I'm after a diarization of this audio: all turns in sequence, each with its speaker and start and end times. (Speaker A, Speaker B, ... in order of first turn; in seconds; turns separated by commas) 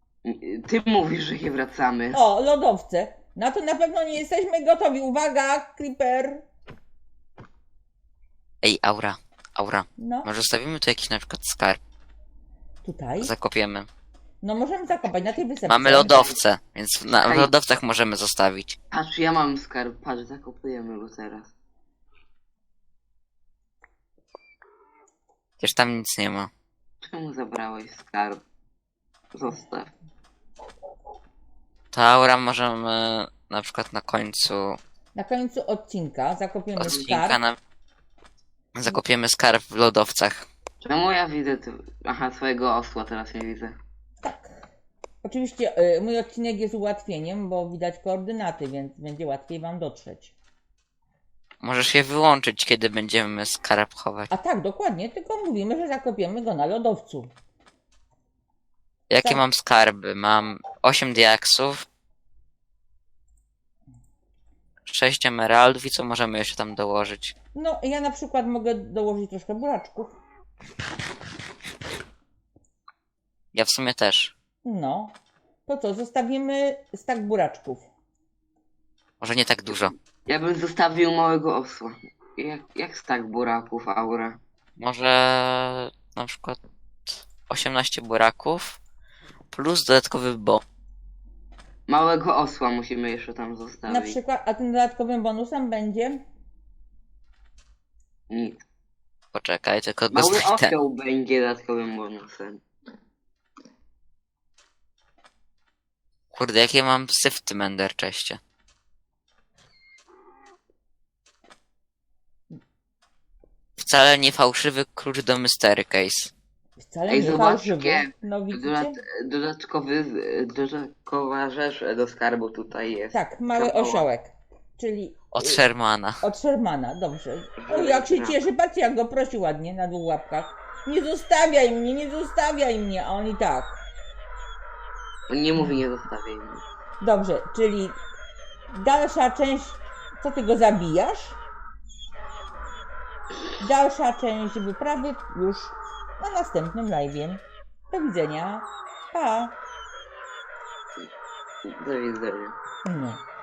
Speaker A: 0.2-2.2, Speaker B: 2.1-6.5, Speaker C: 8.6-11.8, Speaker B: 10.0-10.3, Speaker B: 12.8-13.3, Speaker C: 13.2-13.9, Speaker B: 14.4-16.4, Speaker C: 15.7-18.8, Speaker A: 17.1-17.5, Speaker A: 18.9-21.5, Speaker C: 25.6-26.5, Speaker A: 27.0-28.4, Speaker A: 29.3-29.9, Speaker C: 31.9-34.8, Speaker B: 35.1-37.4, Speaker C: 36.8-37.6, Speaker C: 38.7-40.5, Speaker A: 40.8-43.8, Speaker B: 44.2-44.7, Speaker B: 45.2-50.4, Speaker C: 51.6-54.3, Speaker B: 54.3-57.3, Speaker C: 59.1-61.8, Speaker C: 64.9-67.3, Speaker B: 67.5-70.2, Speaker C: 73.5-74.3, Speaker B: 74.6-77.9, Speaker C: 79.2-79.9, Speaker A: 80.3-84.4, Speaker C: 84.8-88.8, Speaker C: 89.5-90.6, Speaker A: 91.9-94.2, Speaker B: 93.9-96.2, Speaker A: 98.3-98.6, Speaker C: 99.3-100.8, Speaker A: 100.1-102.6, Speaker C: 106.3-108.4, Speaker C: 113.8-116.3, Speaker B: 116.8-119.0, Speaker A: 117.1-124.1, Speaker B: 123.1-125.6, Speaker C: 125.3-126.2, Speaker B: 126.2-133.8, Speaker A: 127.6-128.4, Speaker A: 135.3-136.6, Speaker B: 137.0-138.0, Speaker B: 138.7-141.4, Speaker B: 143.6-149.6, Speaker A: 151.6-152.5, Speaker B: 152.8-153.2